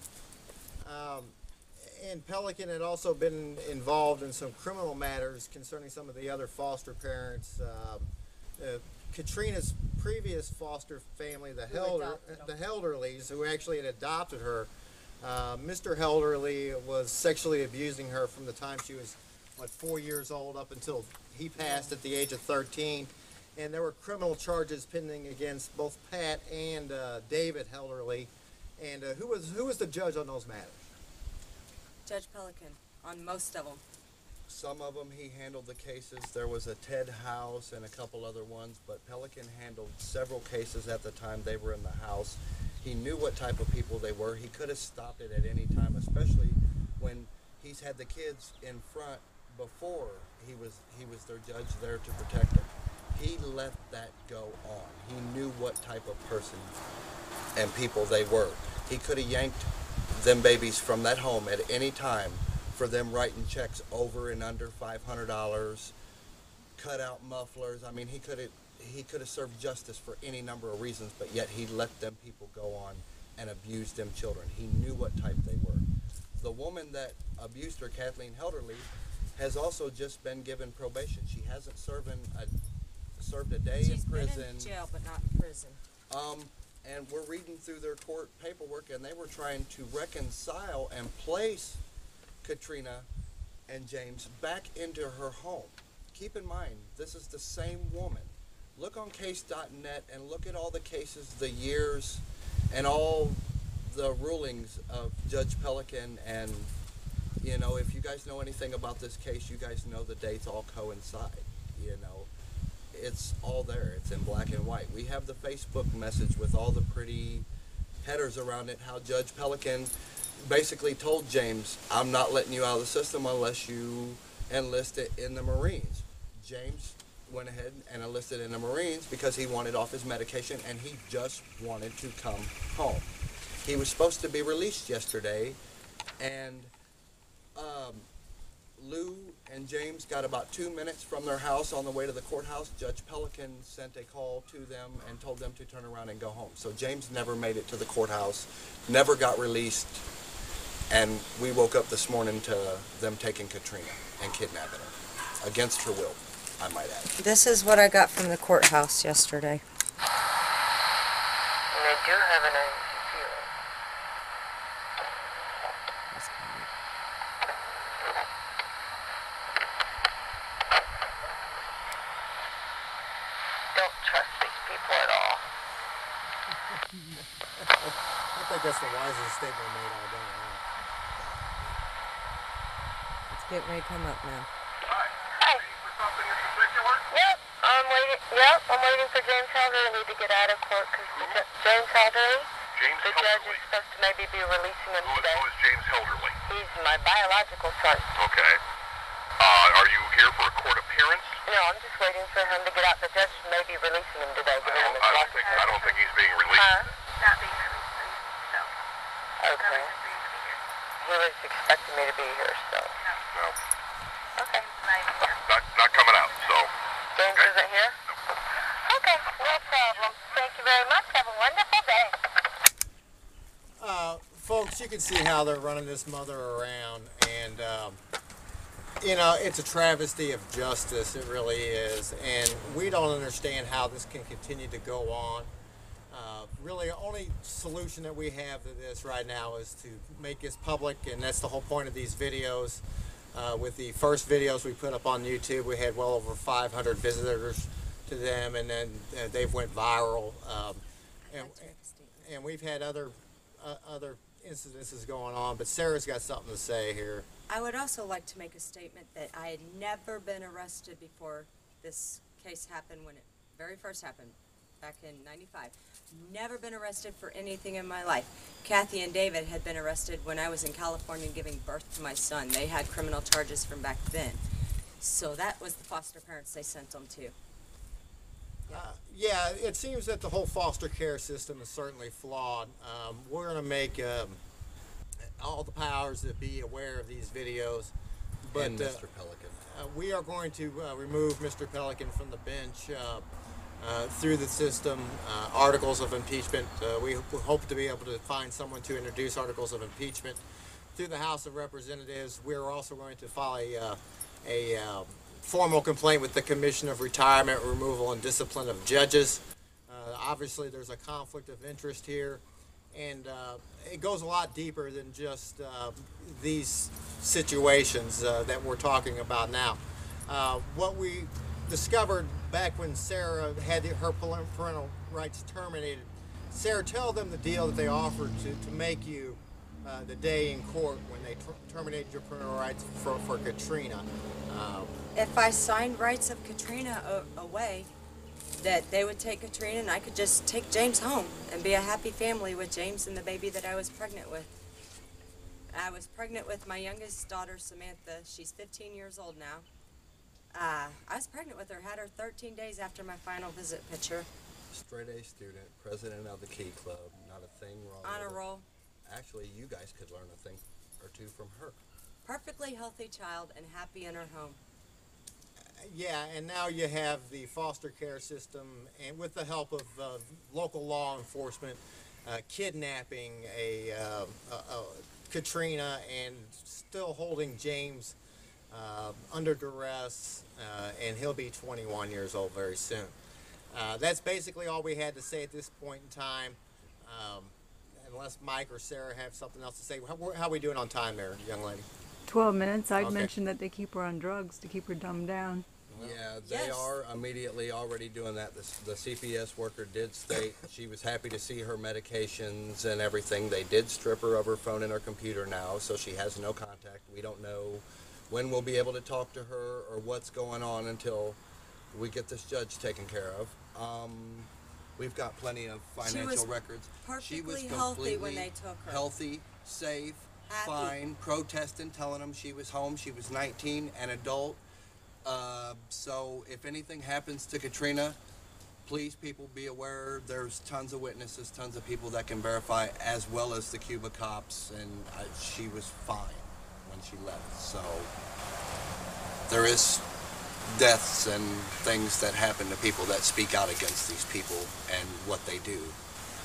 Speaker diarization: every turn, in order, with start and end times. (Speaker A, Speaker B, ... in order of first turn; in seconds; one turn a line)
Speaker A: 0.8-14.7
Speaker B: 11.7-12.5
Speaker A: 15.2-30.9
Speaker B: 21.6-21.9
Speaker B: 32.1-33.8
Speaker C: 34.5-56.8
Speaker C: 57.6-65.9
Speaker C: 66.8-82.5
Speaker C: 83.2-84.7
Speaker B: 83.8-85.8
Speaker C: 86.1-91.8
Speaker C: 92.4-93.1
Speaker C: 93.7-106.7
Speaker C: 107.4-112.3
Speaker C: 112.9-117.5
Speaker C: 118.0-133.1
Speaker C: 133.6-135.6
Speaker C: 136.2-136.7
Speaker C: 137.6-138.1
Speaker C: 138.8-150.1
Speaker C: 150.9-157.2
Speaker B: 157.2-159.6
Speaker D: 161.7-163.5
Speaker B: 166.1-166.7
Speaker D: 173.8-175.4
Speaker A: 176.7-180.7
Speaker C: 181.2-181.8
Speaker B: 183.3-184.5
Speaker E: 184.9-187.1
Speaker D: 185.4-185.7
Speaker D: 187.1-195.5
Speaker E: 191.1-191.5
Speaker E: 192.7-193.6
Speaker E: 195.0-196.4
Speaker D: 196.5-198.1
Speaker E: 198.2-198.6
Speaker E: 199.4-201.4
Speaker D: 201.5-205.8
Speaker E: 204.6-206.9
Speaker F: 205.5-206.3
Speaker D: 206.5-206.9
Speaker F: 207.2-208.7
Speaker D: 209.4-209.9
Speaker F: 209.5-210.6
Speaker D: 211.0-212.9
Speaker E: 213.3-213.6
Speaker D: 214.4-214.6
Speaker F: 214.6-215.5
Speaker E: 215.4-216.7
Speaker D: 217.2-217.9
Speaker E: 217.3-217.6
Speaker D: 218.9-222.2
Speaker A: 223.8-228.0
Speaker A: 229.0-235.5
Speaker A: 236.1-242.8
Speaker A: 243.3-257.3
Speaker B: 251.2-252.2
Speaker B: 257.5-274.4
Speaker B: 275.0-277.4
Speaker A: 278.7-284.4
Speaker A: 285.4-287.9
Speaker A: 288.5-289.0
Speaker C: 288.5-289.7
Speaker A: 289.6-293.3
Speaker A: 293.8-300.4
Speaker A: 300.9-335.0
Speaker B: 335.1-337.9
Speaker B: 338.6-344.5
Speaker B: 345.7-349.7
Speaker B: 350.6-354.3
Speaker C: 354.7-358.4
Speaker B: 358.0-358.7
Speaker C: 359.1-361.8
Speaker B: 362.2-364.6
Speaker A: 365.8-378.2
Speaker A: 378.7-383.2
Speaker A: 383.7-391.9
Speaker G: 392.3-395.6
Speaker F: 392.9-393.3
Speaker A: 393.0-393.3
Speaker A: 395.9-396.2
Speaker C: 396.0-411.4
Speaker B: 396.4-396.9
Speaker C: 411.9-424.6
Speaker B: 416.0-416.5
Speaker B: 417.0-419.1
Speaker B: 420.5-421.0
Speaker C: 425.2-428.2
Speaker C: 428.9-438.1
Speaker C: 439.5-440.1
Speaker C: 440.7-446.0